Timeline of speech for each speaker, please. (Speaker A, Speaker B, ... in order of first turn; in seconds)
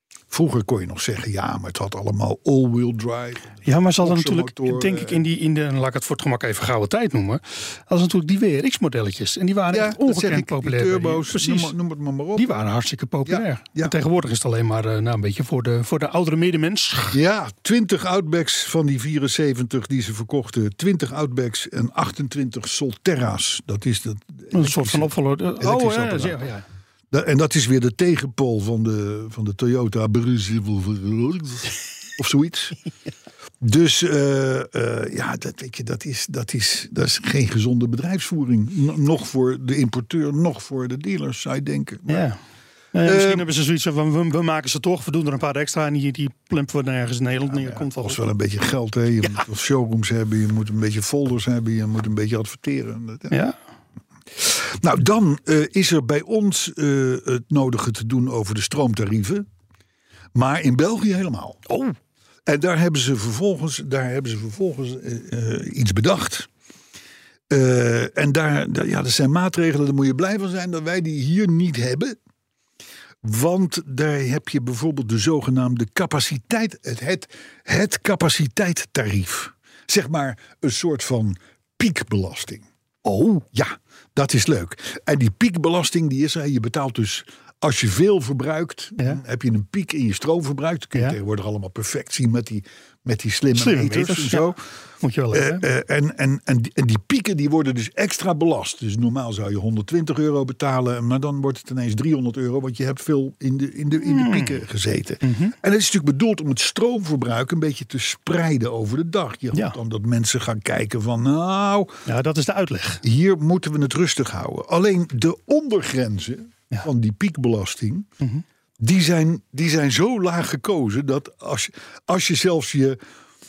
Speaker A: 0.3-5.2, 9.7-12.5, 13.2-13.9, 17.1-26.4, 27.1-32.8, 33.6-42.3, 43.0-43.4, 47.5-53.4, 54.4-59.5, 60.4-61.6, 62.5-66.5, 67.5-72.2, 73.2-82.7, 83.5-94.6, 95.3-112.0, 113.0-118.1, 118.8-123.0
Speaker B: 3.6-11.7, 12.4-17.2, 24.6-26.6, 42.1-42.4, 42.9-48.2, 83.0-83.4, 93.5-95.6, 104.0-104.6, 105.2-105.5, 112.1-113.0